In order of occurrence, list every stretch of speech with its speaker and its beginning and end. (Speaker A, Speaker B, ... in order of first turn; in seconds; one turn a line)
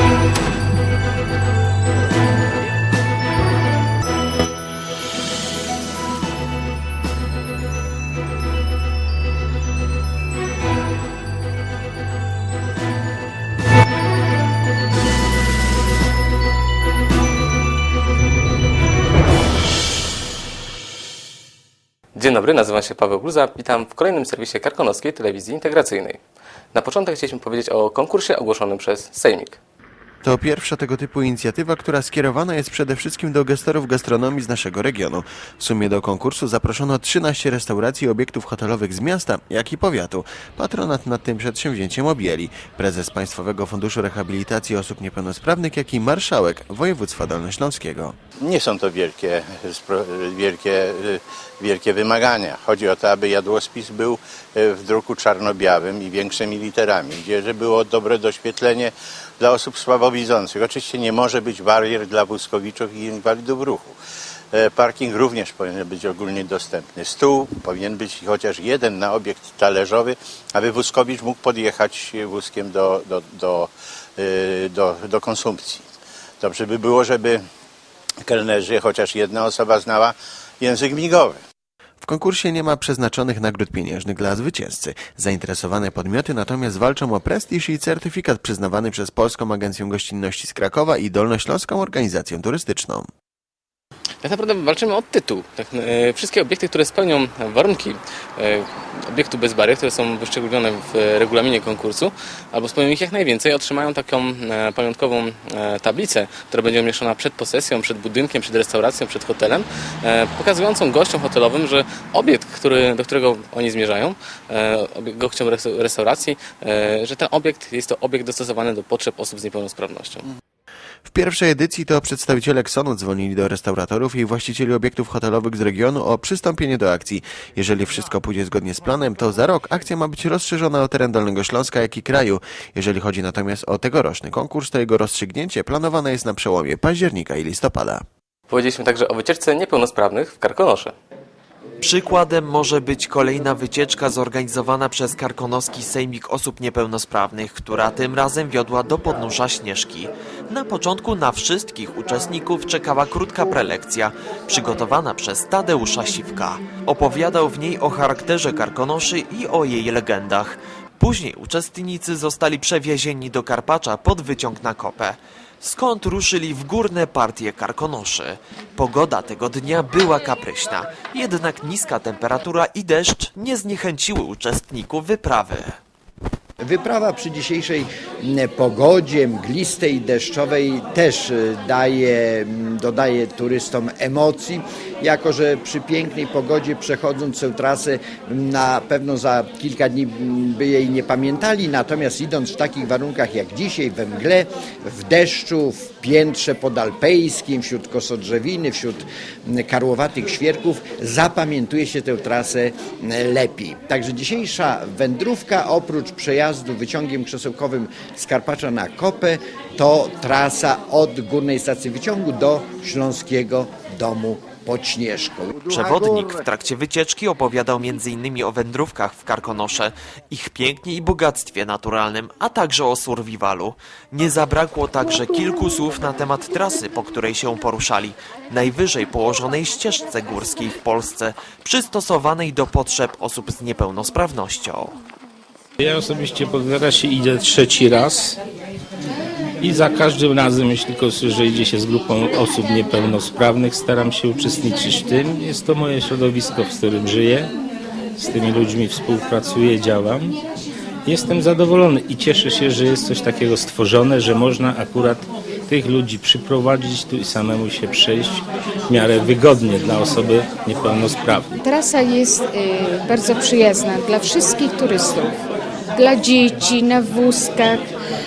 Speaker A: 22.1-26.2
Speaker A: 26.7-29.6
Speaker B: 30.2-48.1
Speaker C: 48.4-64.0
Speaker C: 64.5-75.8
Speaker C: 76.4-77.4
Speaker C: 78.2-81.4
Speaker B: 82.0-93.1
Speaker A: 94.2-120.2
Speaker B: 121.1-138.0
Speaker A: 138.5-140.9
Speaker D: 141.8-175.8
Speaker E: 176.6-216.4
Speaker D: 215.7-235.0
Speaker F: 235.8-238.4
Speaker F: 239.6-247.5
Speaker F: 248.2-250.4
Speaker F: 251.0-261.5
Speaker G: 261.6-265.3
Speaker G: 266.0-267.8